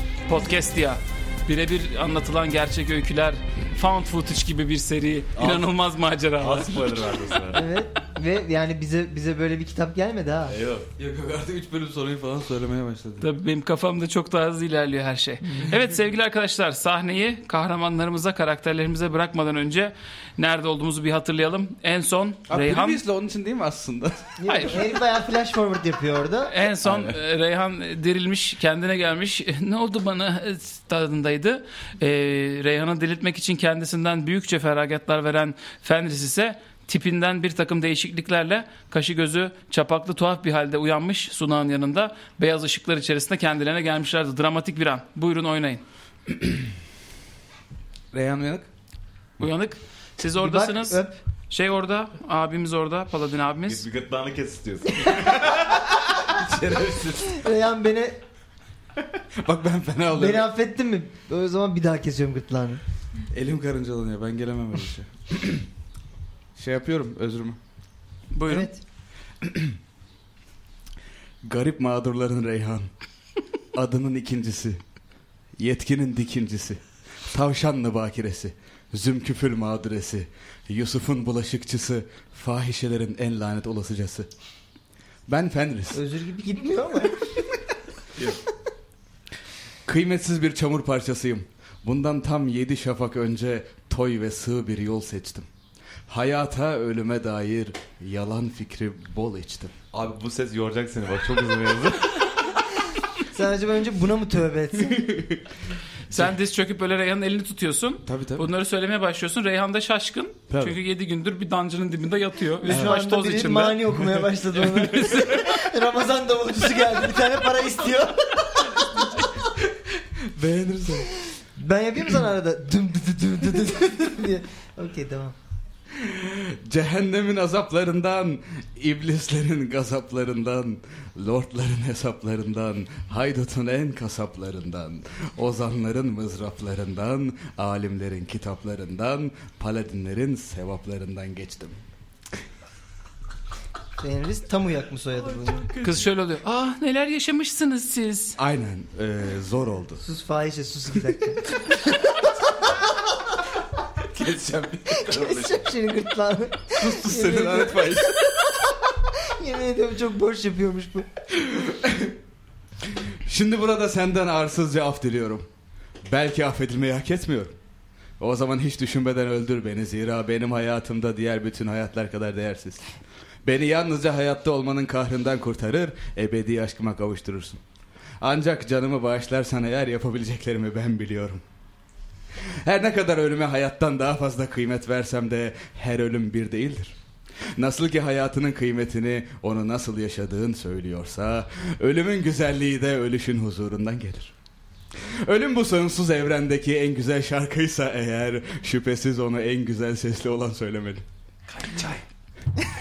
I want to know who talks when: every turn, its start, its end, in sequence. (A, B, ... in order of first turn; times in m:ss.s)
0:00.2-0:06.8 A
0:05.4-0:05.7 B
0:06.4-0:07.6 B
0:07.5-0:10.6 C
0:10.5-0:10.9 B
0:11.0-0:13.2 D
0:13.2-0:23.0 A
0:22.5-0:24.3 D
0:24.4-0:26.5 C
0:24.4-0:24.8 A
0:26.5-0:45.8 A
0:26.8-0:27.1 B
0:48.1-0:48.7 D
0:49.4-0:53.8 A
0:50.4-0:51.2 C
0:53.7-0:55.7 B
0:54.9-0:55.4 C
0:56.3-0:57.3 B
0:57.2-0:58.2 C
0:59.4-1:00.5 D
1:00.1-1:02.8 C
1:03.3-1:05.7 D
1:06.6-1:07.6 D
1:08.3-1:08.7 A
1:08.5-1:08.8 C
1:09.4-1:09.7 D
1:11.4-1:12.9 D
1:13.7-1:14.8 D
1:15.6-1:16.8 D
1:17.3-1:24.3 D
1:25.3-1:26.0 D
1:25.9-1:27.2 C
1:29.8-1:35.4 D
1:36.1-1:39.7 D
1:39.9-1:42.2 B
1:43.3-1:45.0 C
1:44.8-1:45.4 D
1:46.1-1:53.9 A
1:48.0-1:48.4 D
1:50.5-1:50.8 B
1:52.6-1:59.1 C
1:52.7-1:53.0 D
1:59.6-2:01.1 D
2:01.5-2:05.3 C
2:05.9-2:21.7 D
2:24.0-2:25.7 C
2:25.3-2:26.0 B
2:25.8-2:28.4 A
2:28.4-2:30.0 D
2:30.0-2:32.8 C
2:34.0-2:35.6 B
2:34.9-2:41.1 C
2:36.7-2:38.2 D
2:41.3-2:42.1 D
2:42.9-2:45.4 D
2:46.0-2:47.5 D
2:48.2-2:52.8 D
2:53.4-2:57.6 D
2:58.2-3:01.4 D
3:02.4-3:06.9 D
3:07.6-3:14.3 D
3:15.0-3:21.0 D